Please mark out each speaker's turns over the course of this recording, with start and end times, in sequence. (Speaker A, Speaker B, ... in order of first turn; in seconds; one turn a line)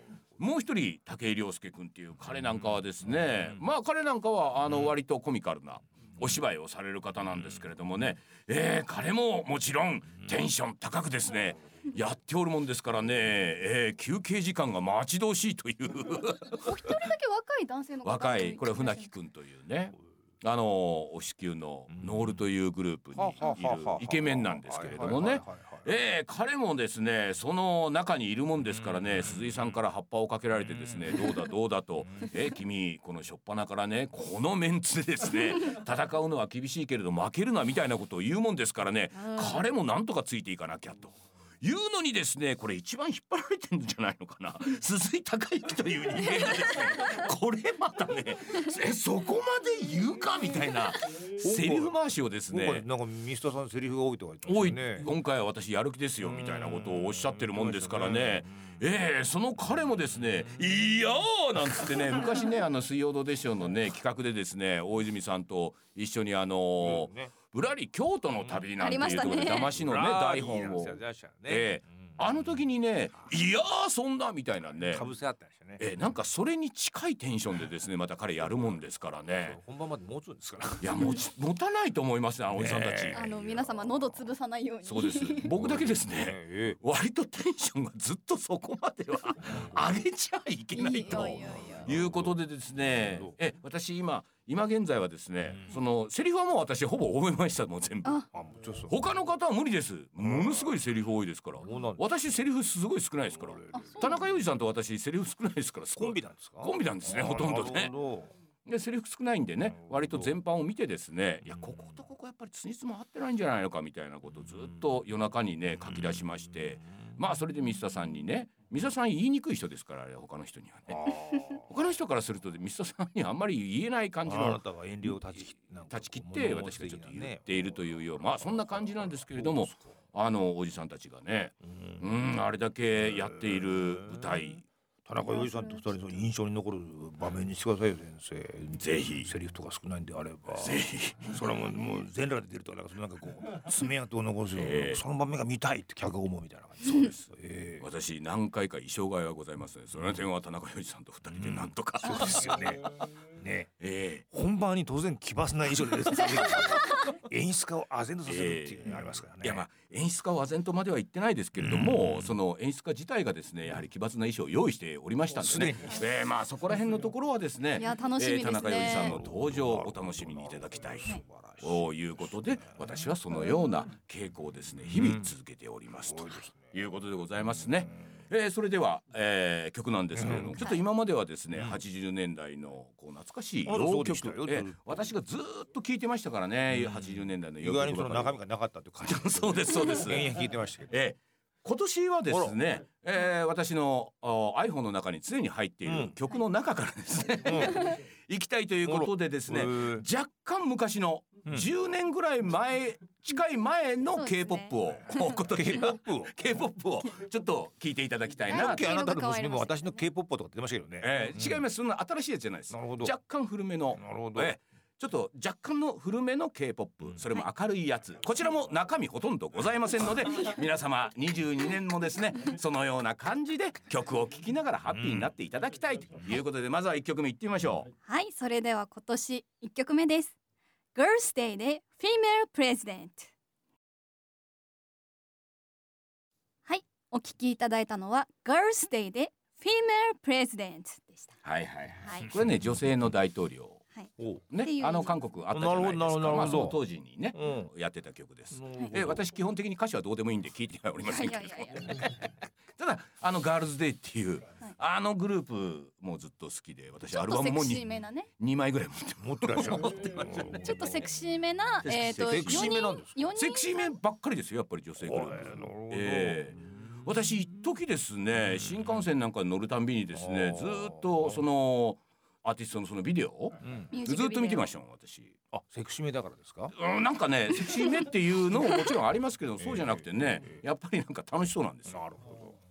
Speaker A: 0.4-17.0
Speaker B: 16.6-19.1
Speaker A: 18.0-52.9
Speaker C: 22.0-22.3
Speaker C: 23.1-25.9
Speaker C: 28.7-29.8
Speaker C: 30.7-31.4
Speaker B: 39.3-39.6
Speaker C: 51.4-51.9
Speaker C: 52.5-55.1
Speaker A: 54.5-75.1
Speaker C: 56.2-58.8
Speaker C: 66.8-67.3
Speaker C: 68.4-72.2
Speaker B: 68.8-69.7
Speaker C: 74.9-75.8
Speaker A: 75.8-79.6
Speaker C: 79.4-81.2
Speaker A: 80.8-83.3
Speaker C: 82.5-83.4
Speaker B: 83.1-85.5
Speaker A: 84.8-98.2
Speaker C: 85.5-86.8
Speaker C: 89.5-89.8
Speaker B: 90.8-91.9
Speaker C: 91.1-93.3
Speaker C: 98.3-99.0
Speaker A: 98.9-107.9
Speaker C: 100.2-100.7
Speaker C: 101.6-102.1
Speaker C: 103.3-104.2
Speaker B: 103.7-104.2
Speaker C: 106.0-108.3
Speaker A: 108.7-121.1
Speaker C: 109.8-110.3
Speaker C: 120.9-121.7
Speaker A: 121.6-125.4
Speaker C: 124.2-129.9
Speaker A: 125.9-134.7
Speaker C: 133.0-134.4
Speaker C: 135.1-147.8
Speaker B: 135.2-135.9
Speaker A: 138.8-139.3
Speaker A: 140.6-141.6
Speaker A: 144.5-145.0
Speaker A: 146.8-147.3
Speaker A: 147.8-152.9
Speaker C: 151.3-153.7
Speaker A: 153.8-154.2
Speaker C: 154.3-159.7
Speaker B: 156.5-157.1
Speaker A: 158.3-188.4
Speaker C: 161.6-162.3
Speaker C: 165.4-166.1
Speaker B: 167.8-169.2
Speaker C: 168.9-172.8
Speaker C: 174.9-175.3
Speaker C: 176.0-176.7
Speaker C: 180.1-180.7
Speaker C: 183.7-185.0
Speaker C: 186.7-190.9
Speaker A: 189.1-190.3
Speaker A: 190.9-208.9
Speaker C: 192.3-192.6
Speaker C: 195.9-196.2
Speaker C: 197.4-197.9
Speaker C: 198.8-200.1
Speaker B: 204.2-205.4
Speaker C: 205.5-206.3
Speaker B: 208.5-210.1
Speaker C: 208.5-211.6
Speaker A: 211.0-227.9
Speaker C: 212.7-213.1
Speaker C: 213.9-214.5
Speaker C: 224.9-225.3
Speaker B: 228.1-230.3
Speaker B: 230.9-233.3
Speaker B: 236.7-241.4
Speaker A: 241.4-243.8
Speaker B: 242.0-242.3
Speaker A: 244.5-257.9
Speaker B: 244.6-245.1
Speaker C: 245.5-246.8
Speaker C: 247.3-247.7
Speaker C: 248.5-249.3
Speaker B: 251.1-252.1
Speaker B: 257.1-258.3
Speaker A: 258.4-261.0
Speaker C: 259.2-261.1
Speaker B: 260.6-263.9
Speaker A: 261.8-275.4
Speaker C: 262.3-263.3
Speaker C: 265.0-266.6
Speaker C: 270.1-271.4
Speaker C: 273.6-273.9
Speaker B: 273.9-274.7
Speaker C: 275.5-276.7
Speaker A: 276.7-282.0
Speaker C: 279.6-280.6
Speaker C: 281.9-282.6